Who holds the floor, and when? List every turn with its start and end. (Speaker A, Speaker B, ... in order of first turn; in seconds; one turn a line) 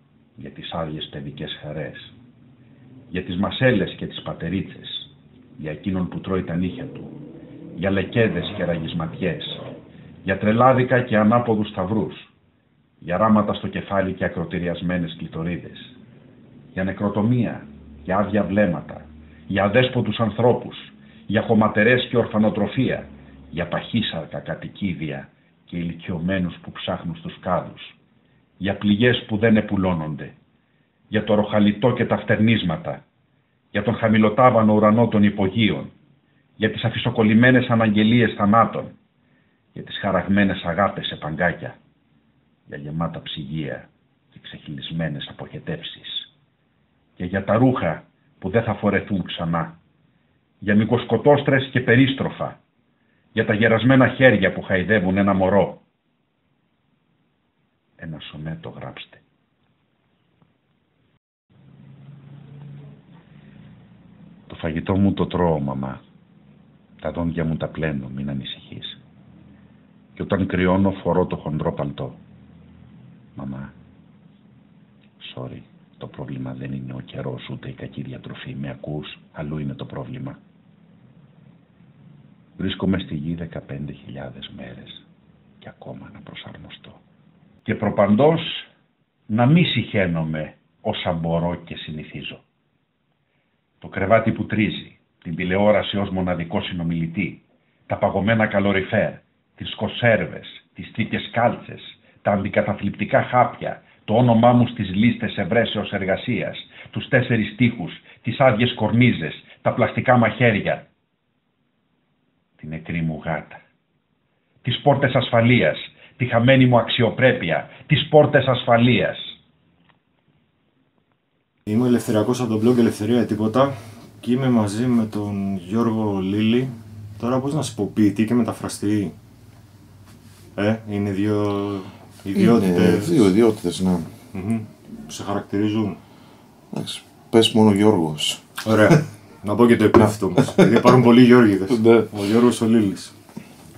Speaker A: 0.4-2.1
Speaker A: 3.1-7.1
Speaker A: 7.8-9.6
Speaker A: 10.2-12.3
Speaker A: 13.0-15.9
Speaker A: 16.8-27.9
Speaker A: 28.6-30.4
Speaker A: 31.1-33.0
Speaker A: 33.7-35.9
Speaker A: 36.6-39.0
Speaker A: 39.7-41.8
Speaker A: 42.7-46.3
Speaker A: 47.2-49.8
Speaker A: 50.6-52.6
Speaker A: 53.3-55.8
Speaker A: 58.0-59.2
Speaker A: 64.5-66.0
Speaker A: 67.0-69.0
Speaker A: 70.2-72.2
Speaker A: 73.4-73.7
Speaker A: 75.2-80.4
Speaker A: 82.6-85.0
Speaker A: 85.6-87.0
Speaker A: 87.7-88.7
Speaker A: 89.3-92.4
Speaker A: 93.8-110.9
Speaker A: 112.6-113.6
Speaker A: 114.6-119.3
Speaker B: 121.7-129.2
Speaker B: 130.6-133.3
Speaker C: 132.4-134.1
Speaker B: 134.3-136.0
Speaker C: 136.7-138.9
Speaker B: 138.6-143.1
Speaker C: 140.0-141.0
Speaker C: 141.7-142.1